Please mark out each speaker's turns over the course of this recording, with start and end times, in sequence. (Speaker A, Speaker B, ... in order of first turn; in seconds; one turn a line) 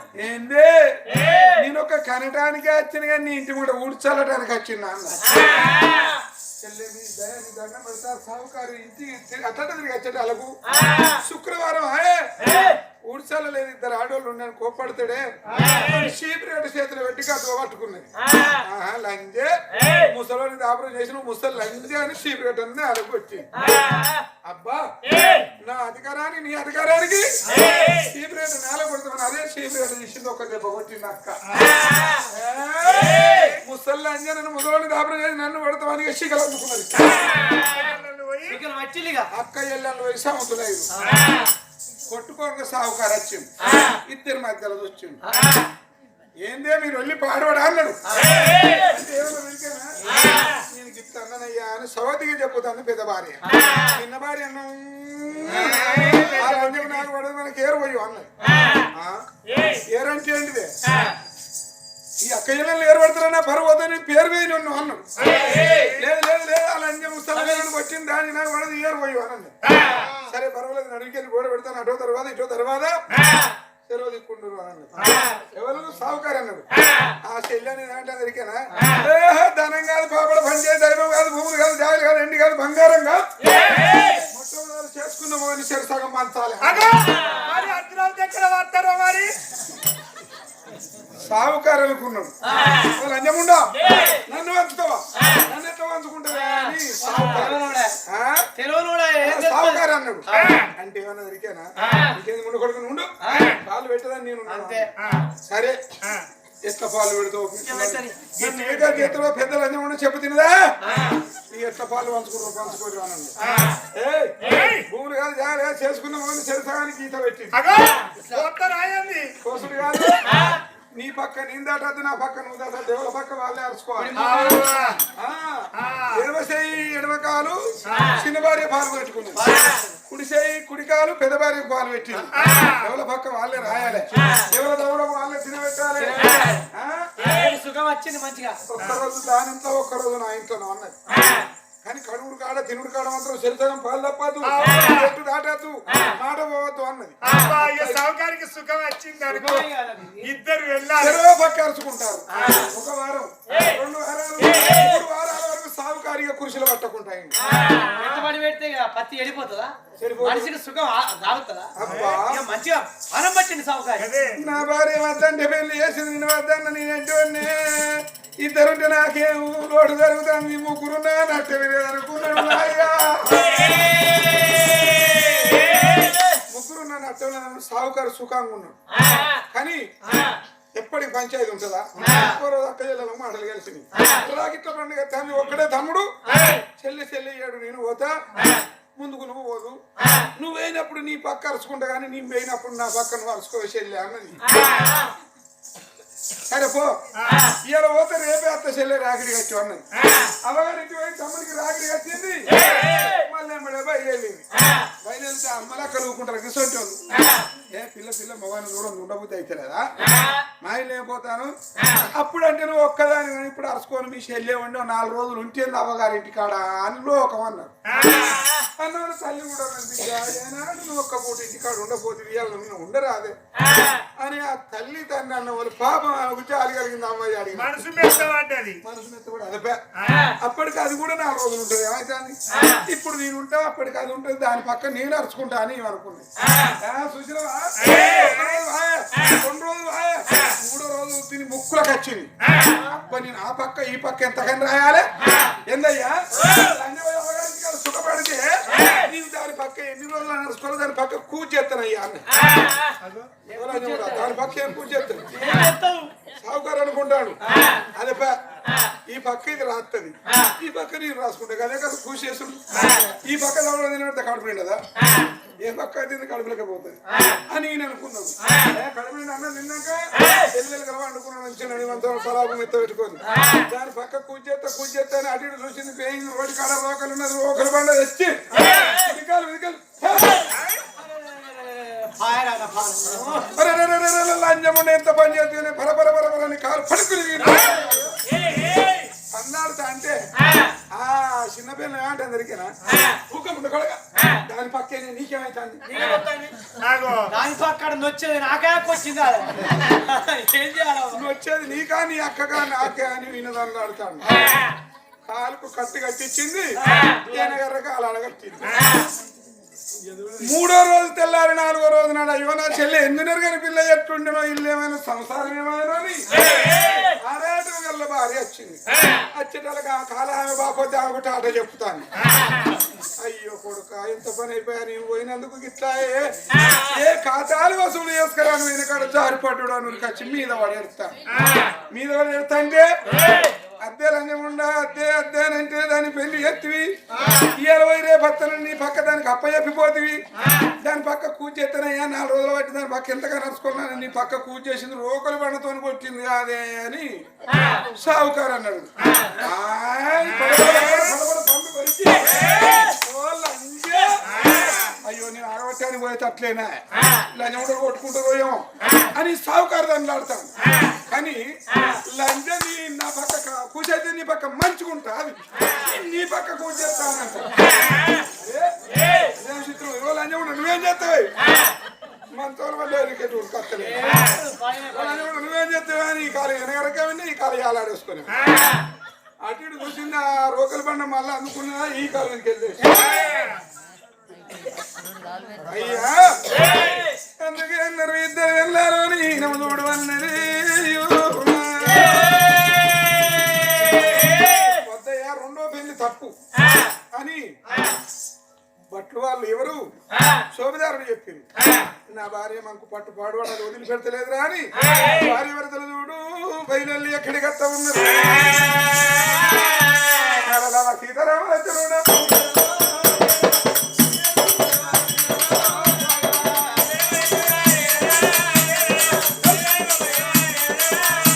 Speaker A: 0.1-5.4
Speaker B: 5.4-6.0
Speaker A: 6.6-23.5
Speaker A: 24.4-31.4
Speaker C: 31.5-32.1
Speaker A: 32.2-37.4
Speaker C: 37.4-38.6
Speaker B: 38.5-39.3
Speaker A: 39.3-40.9
Speaker B: 41.0-41.5
Speaker A: 42.1-45.2
Speaker B: 45.3-45.7
Speaker A: 46.4-60.8
Speaker B: 50.1-50.5
Speaker C: 55.6-57.0
Speaker A: 62.2-65.1
Speaker C: 65.2-66.0
Speaker A: 65.7-73.0
Speaker A: 73.8-76.7
Speaker A: 77.2-83.3
Speaker A: 84.1-87.0
Speaker C: 86.6-89.4
Speaker A: 91.2-98.5
Speaker B: 92.5-93.0
Speaker B: 96.3-98.0
Speaker B: 98.5-100.6
Speaker A: 99.2-105.8
Speaker C: 100.3-100.7
Speaker B: 101.8-102.2
Speaker B: 103.2-103.6
Speaker B: 104.5-104.9
Speaker C: 105.0-105.3
Speaker A: 106.6-110.8
Speaker B: 107.6-108.3
Speaker C: 108.3-109.1
Speaker B: 110.9-111.2
Speaker A: 111.4-117.6
Speaker C: 114.4-114.8
Speaker C: 117.6-119.4
Speaker B: 118.2-118.5
Speaker A: 119.4-124.5
Speaker B: 124.0-124.8
Speaker C: 124.2-125.0
Speaker A: 125.1-129.5
Speaker C: 125.8-126.2
Speaker C: 127.9-128.2
Speaker B: 129.4-129.9
Speaker A: 130.1-137.2
Speaker C: 132.3-132.9
Speaker B: 136.0-136.6
Speaker B: 137.2-138.6
Speaker A: 138.7-141.0
Speaker B: 141.1-141.4
Speaker A: 141.8-148.0
Speaker C: 144.4-145.1
Speaker C: 147.2-149.7
Speaker B: 149.3-150.3
Speaker C: 150.2-151.2
Speaker A: 151.0-157.4
Speaker B: 152.3-152.7
Speaker B: 157.4-164.1
Speaker A: 160.0-160.5
Speaker A: 161.8-162.4
Speaker C: 164.0-164.4
Speaker A: 164.3-174.2
Speaker A: 176.4-178.8
Speaker A: 179.3-179.9
Speaker A: 180.7-195.0
Speaker A: 196.5-217.7
Speaker C: 197.2-197.4
Speaker C: 217.9-218.5
Speaker A: 218.6-223.3
Speaker A: 224.0-228.2
Speaker C: 227.5-228.8
Speaker A: 228.8-252.2
Speaker C: 230.0-230.3
Speaker C: 253.0-253.3
Speaker B: 253.5-254.4
Speaker A: 253.5-255.4
Speaker B: 255.3-256.1
Speaker A: 256.3-258.4
Speaker B: 257.4-257.8
Speaker A: 258.9-264.8
Speaker A: 265.6-280.5
Speaker B: 273.3-273.6
Speaker C: 280.5-280.8
Speaker B: 280.9-283.5
Speaker A: 283.5-288.2
Speaker B: 287.7-288.0
Speaker C: 288.3-289.1
Speaker A: 289.3-290.2
Speaker A: 290.9-296.2
Speaker B: 295.9-296.7
Speaker C: 296.7-297.3
Speaker B: 297.3-301.2
Speaker A: 301.1-304.6
Speaker A: 305.2-308.9
Speaker B: 306.8-307.6
Speaker B: 310.1-310.4
Speaker A: 310.4-322.1
Speaker A: 323.2-371.4
Speaker A: 372.3-378.4
Speaker B: 373.8-375.4
Speaker A: 379.4-383.4
Speaker C: 383.3-383.6
Speaker A: 385.6-392.7
Speaker A: 393.8-396.3
Speaker A: 397.1-397.9
Speaker A: 398.9-408.9
Speaker A: 410.2-413.4
Speaker A: 414.0-416.8
Speaker B: 416.1-417.1
Speaker B: 418.4-420.3